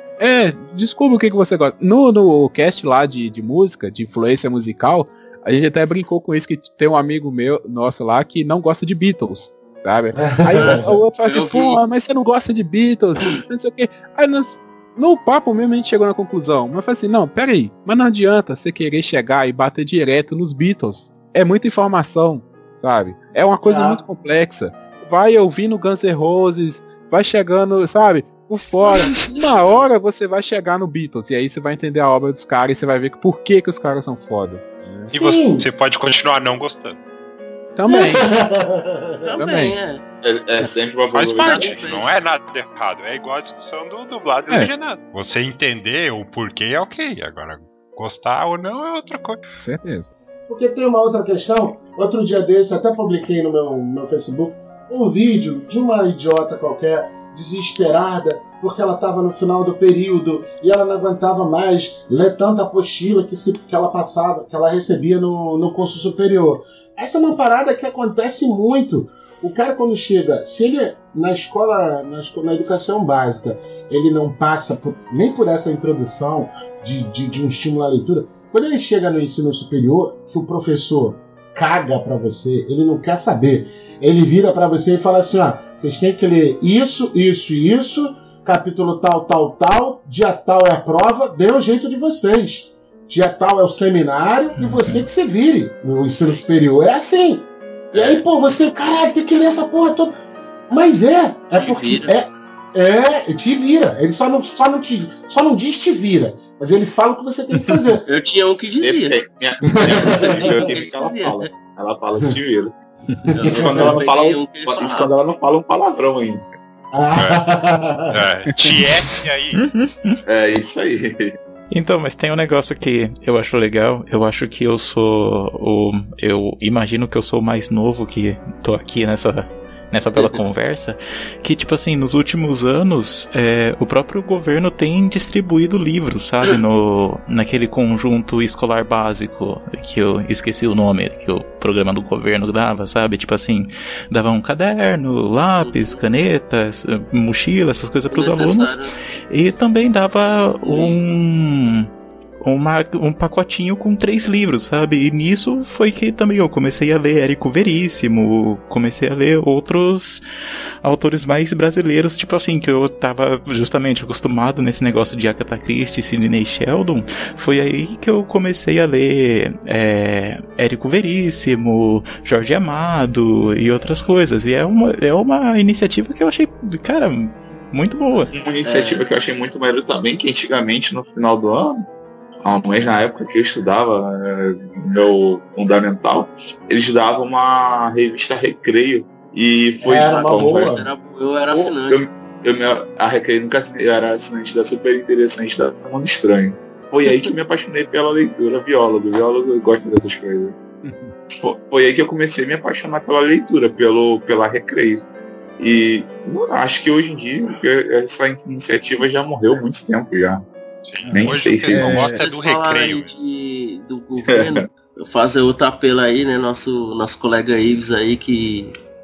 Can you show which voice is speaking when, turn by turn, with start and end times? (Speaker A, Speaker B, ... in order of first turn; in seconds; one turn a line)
Speaker A: 0.2-35.1
Speaker B: 10.2-11.0
Speaker C: 10.5-11.8
Speaker B: 23.6-24.0
Speaker C: 28.8-29.9
Speaker B: 35.1-35.7
Speaker D: 35.1-37.0
Speaker A: 37.8-38.5
Speaker B: 37.9-39.3
Speaker C: 39.2-40.0
Speaker A: 39.4-39.8
Speaker E: 40.2-41.9
Speaker D: 41.1-49.4
Speaker C: 41.4-42.1
Speaker A: 44.5-45.0
Speaker A: 49.6-50.1
Speaker B: 50.5-100.2
Speaker C: 97.9-98.2
Speaker B: 100.7-108.0
Speaker C: 101.5-102.2
Speaker C: 108.1-109.2
Speaker E: 108.8-112.7
Speaker C: 109.8-111.5
Speaker B: 109.8-110.6
Speaker C: 113.3-115.1
Speaker B: 113.4-114.0
Speaker E: 113.4-116.4
Speaker B: 116.9-118.1
Speaker D: 117.1-117.4
Speaker D: 118.1-119.6
Speaker A: 118.5-118.8
Speaker F: 119.6-120.1
Speaker E: 120.2-121.3
Speaker F: 121.7-151.9
Speaker C: 145.6-146.0
Speaker C: 148.1-148.9
Speaker C: 150.6-151.0
Speaker F: 152.4-160.2
Speaker F: 160.8-178.3
Speaker E: 178.3-181.8
Speaker C: 178.6-179.0
Speaker E: 182.4-190.8
Speaker B: 189.8-190.8
Speaker C: 190.0-192.0
Speaker E: 191.5-200.6
Speaker A: 200.8-201.1
Speaker E: 201.4-205.0
Speaker E: 205.6-210.4
Speaker D: 210.8-213.1
Speaker E: 211.1-212.0
Speaker A: 211.1-212.2
Speaker C: 212.2-218.7
Speaker E: 214.3-214.6